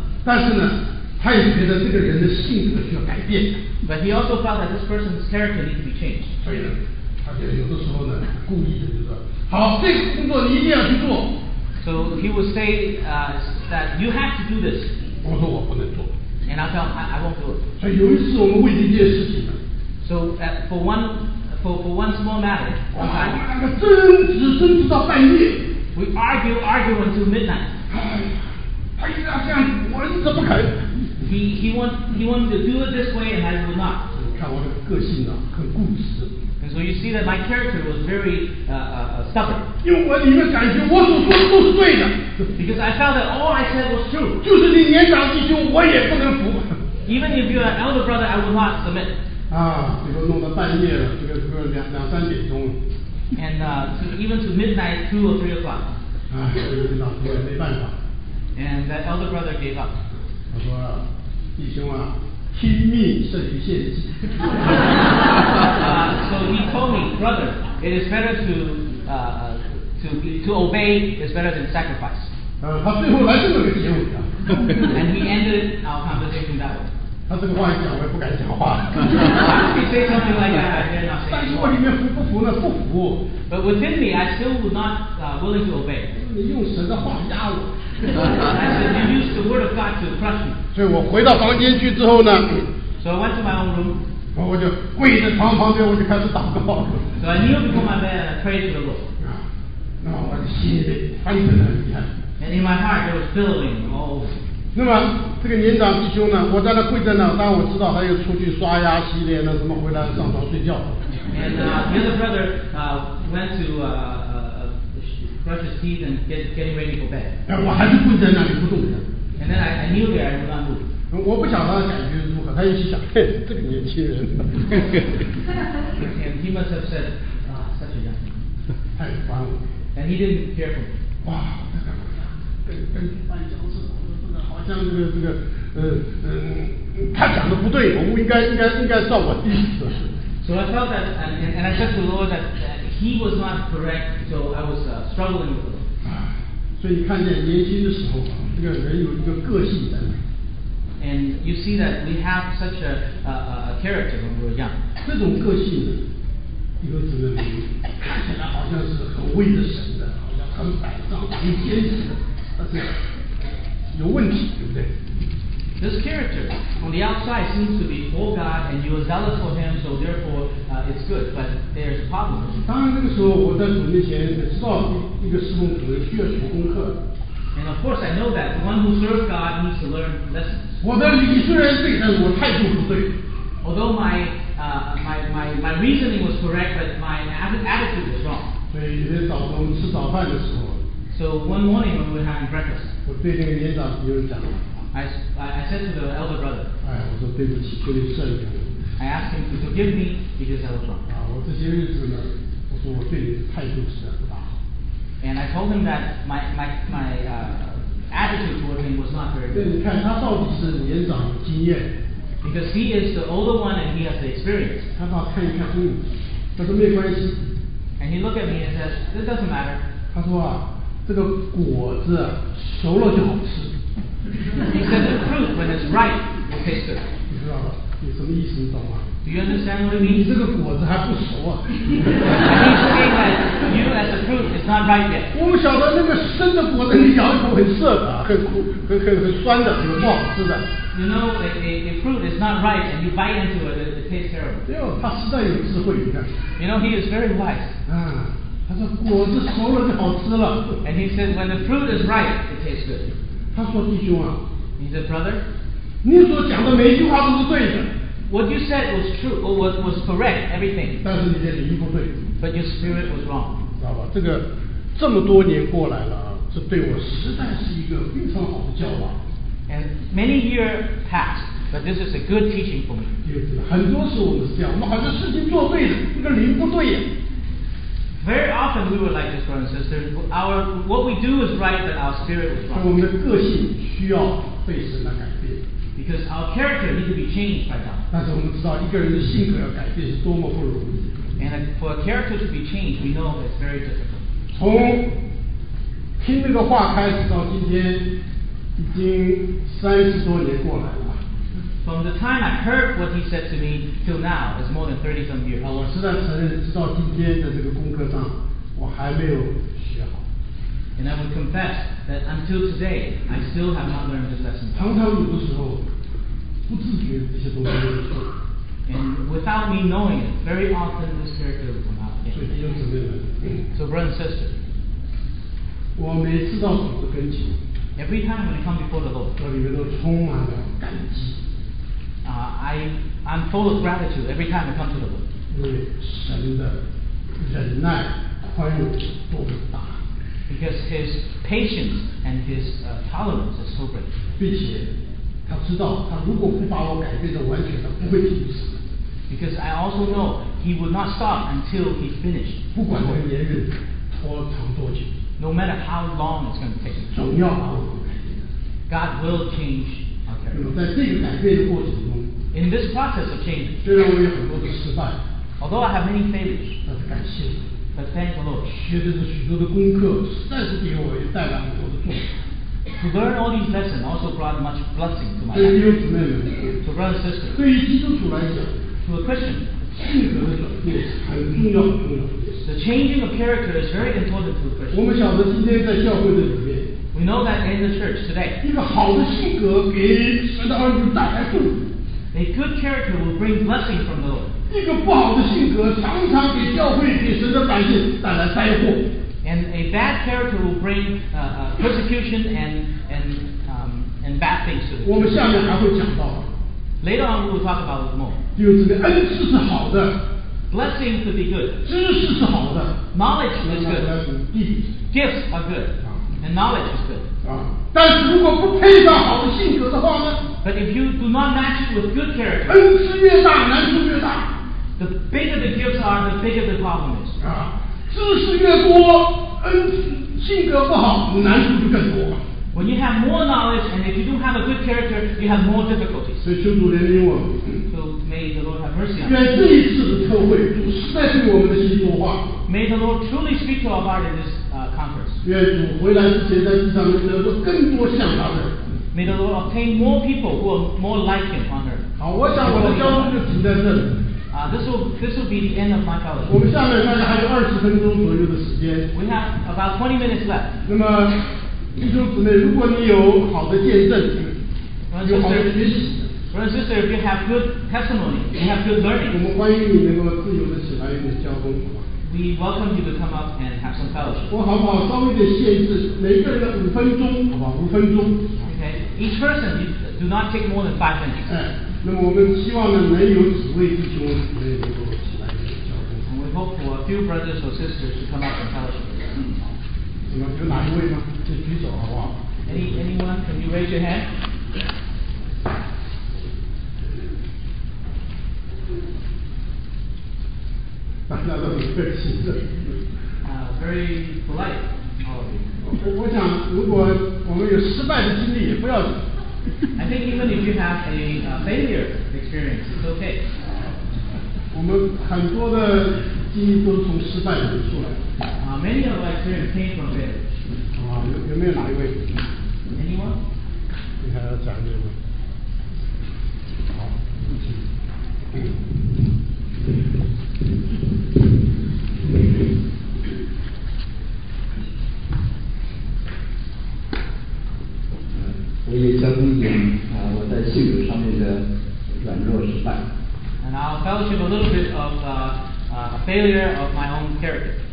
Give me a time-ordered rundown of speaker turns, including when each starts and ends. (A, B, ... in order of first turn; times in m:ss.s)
0:00.2-0:03.6 A
0:03.8-0:06.3 B
0:06.4-0:11.3 A
0:11.8-0:14.9 B
0:15.2-0:16.1 A
0:16.5-0:17.6 B
0:17.8-0:19.6 A
0:20.0-0:23.4 B
0:22.9-0:25.7 A
0:25.9-0:27.7 B
0:27.9-0:31.0 A
0:31.2-0:34.0 B
0:34.1-0:36.4 A
0:36.6-0:39.6 B
0:39.8-0:42.5 A
0:42.6-0:44.4 B
0:44.4-0:46.8 A
0:47.0-0:49.1 B
0:49.5-0:52.8 A
0:53.4-0:55.9 B
0:56.3-0:58.0 A
0:58.6-0:59.9 B
1:00.5-1:01.0 A
1:01.6-1:04.8 A
1:05.6-1:12.3 B
1:12.6-1:14.7 A
1:14.8-1:16.9 B
1:17.3-1:19.3 A
1:19.2-1:21.8 B
1:21.3-1:23.2 A
1:23.5-1:26.1 B
1:26.1-1:27.7 A
1:28.3-1:30.6 B
1:30.7-1:32.7 A
1:33.0-1:34.0 B
1:34.3-1:37.1 A
1:37.2-1:39.0 B
1:39.2-1:39.4 A
1:40.0-1:42.1 A
1:42.4-1:44.4 B
1:44.7-1:51.3 A
1:51.3-1:57.3 B
1:57.5-1:59.0 A
1:59.4-2:00.8 B
2:01.1-2:05.2 A
2:06.0-2:08.4 B
2:08.9-2:09.6 A
2:09.9-2:10.9 B
2:11.2-2:20.1 A
2:20.4-2:25.8 B
2:26.0-2:30.2 A
2:31.0-2:34.8 B
2:35.0-2:36.0 A
2:36.8-2:42.9 A
2:43.9-2:44.9 A
2:45.8-2:52.6 B
2:52.6-2:57.0 A
2:57.5-3:00.8 B
3:00.8-3:03.1 A
3:03.6-3:08.5 B
3:08.7-3:10.8 A
3:11.1-3:12.9 B
3:13.0-3:14.8 A
3:14.9-3:16.7 B
3:16.8-3:18.7 A
3:19.0-3:21.0 B
3:21.0-3:24.5 A
3:25.2-3:29.7 B
3:29.5-3:31.9 A
3:32.4-3:34.9 B
3:35.0-3:37.4 A
3:38.0-3:39.8 B
3:40.1-3:43.8 A
3:44.6-3:47.0 B
3:47.3-3:49.1 A
3:49.2-3:50.2 B
3:49.9-3:52.4 A
3:52.3-3:55.3 B
3:55.3-4:00.7 A
4:00.9-4:04.6 B
4:04.6-4:06.3 A
4:06.6-4:07.7 B
4:07.8-4:10.8 A
4:10.8-4:13.1 B
4:13.5-4:14.4 A
4:14.8-4:15.4 B
4:16.0-4:17.9 A
4:18.3-4:21.0 B
4:21.0-4:22.2 A
4:22.4-4:23.6 B
4:23.8-4:29.2 A
4:29.7-4:33.1 B
4:33.2-4:37.1 A
4:38.2-4:42.9 B
4:42.7-4:45.6 A
4:46.0-4:48.0 B
4:48.1-4:51.1 A
4:51.4-4:54.2 B
4:54.5-4:55.1 A
4:56.2-4:58.1 A
4:58.8-5:01.2 A
5:01.8-5:05.8 B
5:05.6-5:10.2 A
5:11.0-5:15.0 B
5:14.7-5:15.8 A
5:16.7-5:18.3 A
5:18.8-5:22.5 B
5:22.3-5:23.6 A
5:23.7-5:24.5 B
5:26.0-5:27.6 A
5:28.0-5:29.3 B
5:29.4-5:31.4 A
5:32.2-5:35.2 B
5:35.5-5:36.8 A
5:37.4-5:40.0 A
5:40.5-5:44.1 B
5:44.4-5:44.9 A
5:45.4-5:48.8 A
5:49.3-5:52.6 B
5:52.7-5:55.1 A
5:55.4-5:57.1 B
5:57.1-5:58.5 A
5:58.9-6:00.6 B
6:00.5-6:02.3 A
6:02.5-6:03.8 B
6:03.8-6:05.2 A
6:05.6-6:06.8 B
6:06.8-6:07.7 A
6:07.9-6:08.7 B
6:08.6-6:12.3 A
6:13.0-6:15.8 B
6:15.5-6:16.8 A
6:16.8-6:17.6 B
6:17.5-6:18.8 A
6:19.0-6:19.7 B
6:19.9-6:22.6 A
6:22.6-6:25.1 B
6:24.9-6:26.9 A
6:27.1-6:28.6 B
6:28.6-6:31.9 A
6:32.3-6:34.5 B
6:34.7-6:39.1 A
6:39.4-6:45.5 B
6:45.0-6:46.5 A
6:47.0-6:48.4 B
6:48.5-6:50.2 A
6:50.7-6:51.8 B
6:51.8-6:53.0 A
6:53.1-6:54.1 B
6:53.6-6:54.9 A
6:55.1-6:57.3 B
6:57.4-7:00.4 A
7:00.6-7:02.8 B
7:02.6-7:04.5 A
7:05.0-7:07.4 B
7:07.4-7:12.4 A
7:12.7-7:16.4 B
7:16.4-7:17.8 A
7:17.9-7:19.4 B
7:19.2-7:22.6 A
7:22.6-7:25.4 B
7:25.4-7:28.8 A
7:29.1-7:32.0 B
7:32.2-7:34.2 A
7:32.6-7:33.3 B
7:34.5-7:36.6 B
7:36.4-7:39.1 A
7:39.1-7:40.7 B
7:40.8-7:41.4 A
7:41.9-7:44.6 A
7:45.1-7:45.9 B
7:45.2-7:46.3 A
7:46.5-7:49.4 B
7:49.3-7:52.0 A
7:52.2-7:54.5 B
7:54.5-7:58.7 A
7:58.6-8:01.5 B
8:01.5-8:06.2 A
8:06.2-8:09.7 B
8:10.3-8:12.9 A
8:12.6-8:14.3 B
8:21.3-8:23.0 A
8:23.4-8:25.7 B
8:25.8-8:29.2 A
8:30.0-8:33.4 B
8:34.7-8:38.3 A
8:38.6-8:40.6 B
8:40.9-8:42.3 A
8:42.9-8:43.4 B
8:44.2-8:45.2 A
8:46.9-8:47.8 A
8:58.3-9:03.0 C
9:03.6-9:07.8 B